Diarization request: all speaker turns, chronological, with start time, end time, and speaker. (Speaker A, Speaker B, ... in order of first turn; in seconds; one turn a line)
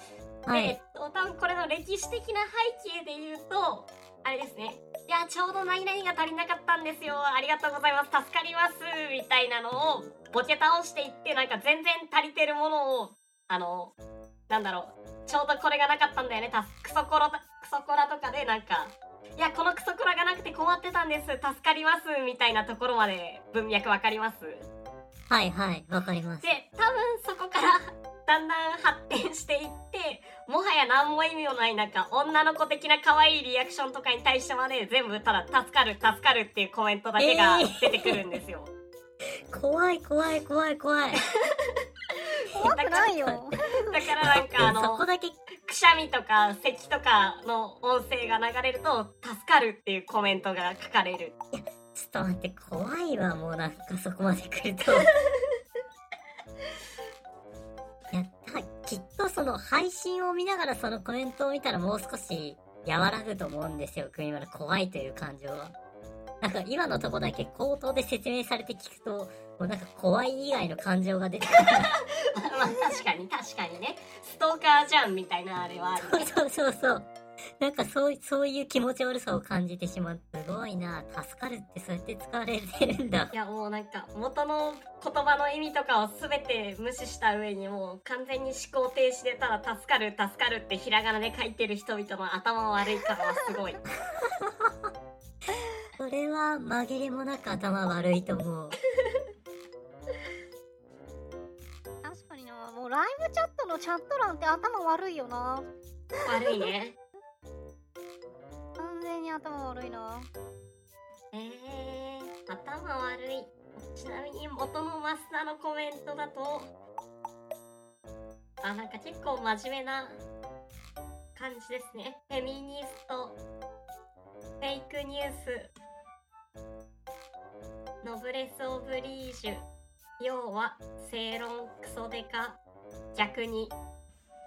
Speaker A: 0.5-0.8
Speaker B: 0.5-13.9
Speaker B: 14.5-24.7
Speaker A: 25.3-26.6
Speaker B: 26.4-38.7
Speaker A: 37.2-38.2
Speaker A: 39.5-41.2
Speaker C: 42.5-43.8
Speaker B: 42.5-43.2
Speaker A: 42.7-43.4
Speaker B: 43.8-45.1
Speaker A: 44.2-45.4
Speaker B: 45.6-51.3
Speaker A: 51.5-55.1
Speaker A: 58.1-65.7
Speaker A: 66.4-71.9
Speaker B: 72.3-76.3
Speaker A: 76.0-77.1
Speaker A: 77.6-83.3
Speaker B: 83.3-93.8
Speaker A: 94.1-94.9
Speaker A: 96.0-98.8
Speaker C: 102.0-106.5
Speaker B: 106.2-107.0
Speaker C: 108.8-110.3
Speaker B: 111.3-116.7
Speaker B: 118.6-120.2
Speaker B: 121.3-123.4
Speaker B: 124.6-125.7
Speaker B: 128.0-129.6
Speaker B: 130.2-132.6
Speaker B: 133.1-133.7